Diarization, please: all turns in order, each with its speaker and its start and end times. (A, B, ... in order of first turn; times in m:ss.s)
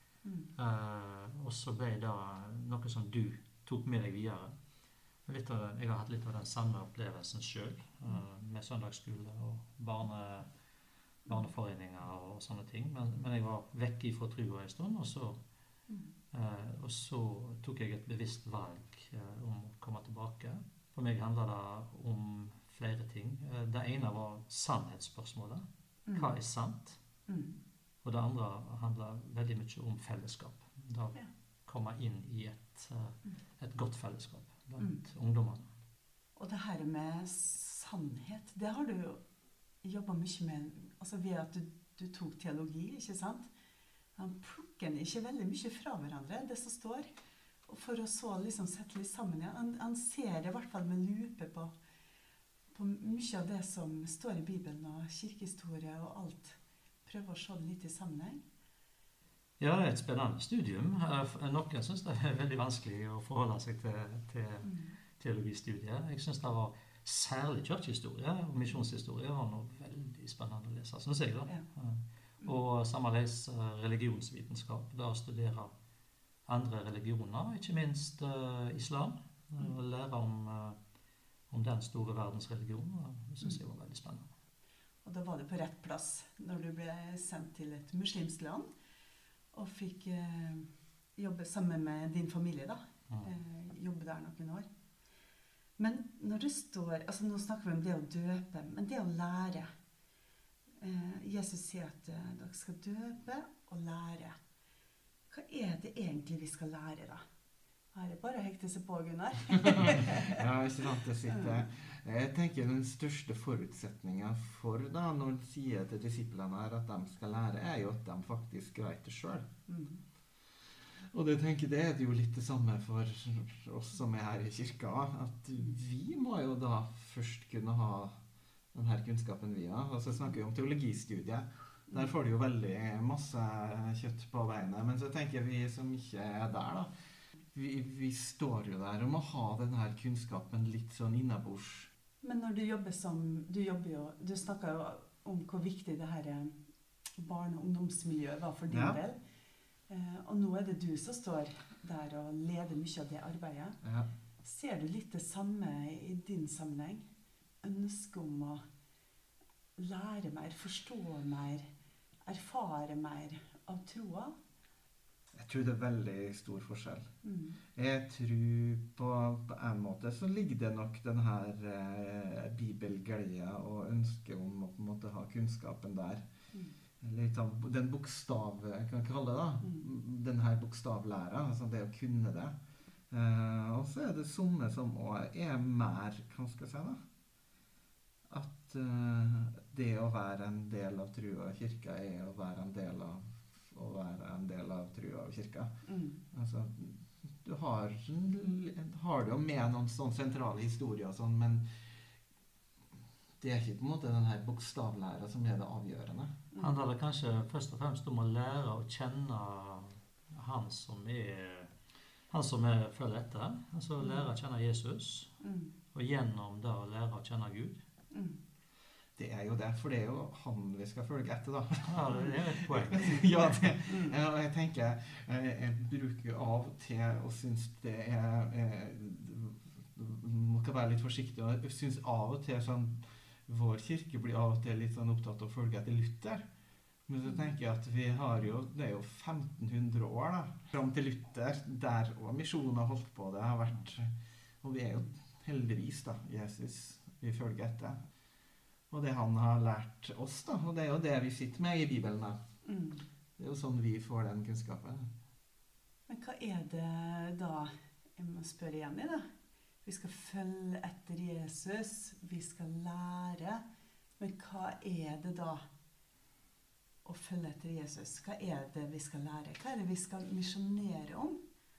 0:00.2-0:00.5 A
0:00.6-0:04.6 B
0:05.3-0:10.5 B
0:11.3-0:15.4 B
0:16.3-0:27.0 B
0:26.1-0:26.3 A
0:27.3-0:27.6 A
0:28.0-0:35.7 B
0:36.4-0:39.2 A
0:39.8-0:43.5 A
0:44.2-0:47.1 A
0:47.7-0:51.7 A
0:52.7-0:58.4 A
0:59.6-1:15.7 B
1:04.6-1:05.0 A
1:16.5-1:20.8 B
1:21.5-1:24.3 B
1:25.0-1:28.7 A
1:29.5-1:34.7 A
1:35.8-1:39.7 A
1:40.8-1:44.4 A
1:45.3-1:47.2 A
1:47.9-1:50.5 A
1:49.6-1:59.5 C
1:51.3-1:51.6 A
1:59.7-2:00.0 A
2:01.0-2:08.2 C
2:08.7-2:16.9 C
2:17.5-2:21.9 C
2:22.2-2:26.6 A
2:27.2-2:29.2 A
2:28.7-2:29.0 C
2:29.9-2:33.8 A
2:33.8-2:34.1 C
2:34.4-2:37.1 A
2:37.6-2:38.6 A
2:39.8-2:41.7 A
2:42.3-2:44.4 A
2:45.3-2:47.1 C
2:47.2-2:47.6 A
2:47.7-2:56.3 C
2:57.0-3:02.6 C
3:03.1-3:07.0 C
3:08.3-3:15.7 C
3:15.9-3:16.2 A
3:16.3-3:21.9 C
3:23.4-3:26.4 C
3:26.6-3:31.7 B
3:32.3-3:35.4 B
3:34.0-3:34.3 A
3:35.4-3:35.7 A
3:35.9-3:37.8 B
3:38.1-3:38.4 A
3:39.2-3:56.4 C
3:41.9-3:43.8 B
3:43.9-3:44.2 A
3:57.1-4:08.0 C
4:08.9-4:12.4 C
4:12.6-4:13.1 A
4:13.4-4:15.1 C
4:16.1-4:19.3 A
4:19.8-4:23.6 A
4:24.2-4:25.7 A
4:27.0-4:31.4 A